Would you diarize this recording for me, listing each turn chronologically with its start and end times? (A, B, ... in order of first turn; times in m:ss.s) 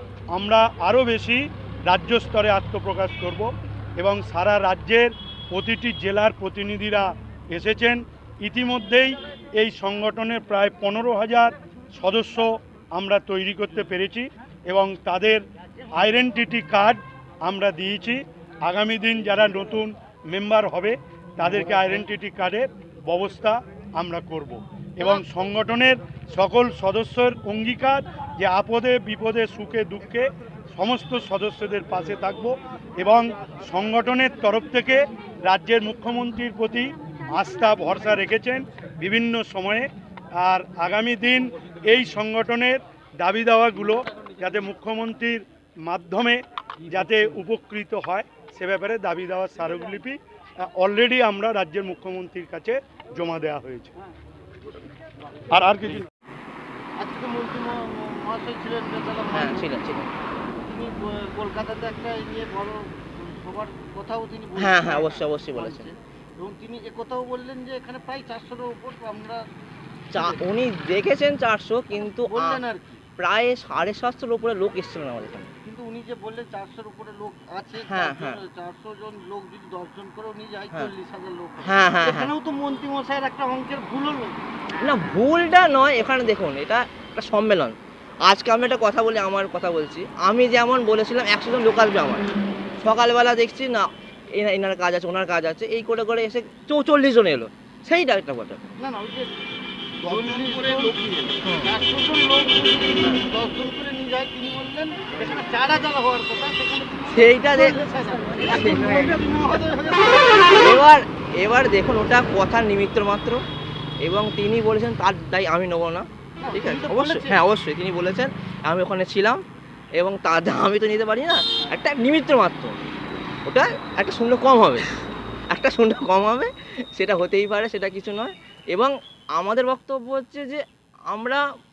0:00.3-0:15.4 A
0:16.0-0:39.9 A
0:40.4-0:50.2 A
0:50.8-0:53.9 A
0:55.5-0:56.1 A
0:57.0-0:59.7 B
0:59.3-1:00.1 C
1:00.6-1:09.4 B
1:04.6-1:05.9 C
1:10.1-1:12.6 C
1:12.3-1:13.0 B
1:13.2-1:15.5 C
1:15.7-1:24.4 B
1:17.9-1:18.4 C
1:21.6-1:22.3 C
1:24.8-1:27.8 C
1:28.3-1:32.2 C
1:32.8-1:38.7 C
1:38.8-1:39.3 B
1:40.0-1:50.6 B
1:41.0-1:41.7 C
1:47.1-1:49.2 C
1:50.5-1:53.4 C
1:54.0-1:59.4 C
1:56.4-1:57.4 B
2:00.0-2:02.8 C
2:03.4-2:04.9 C
2:05.5-2:11.4 C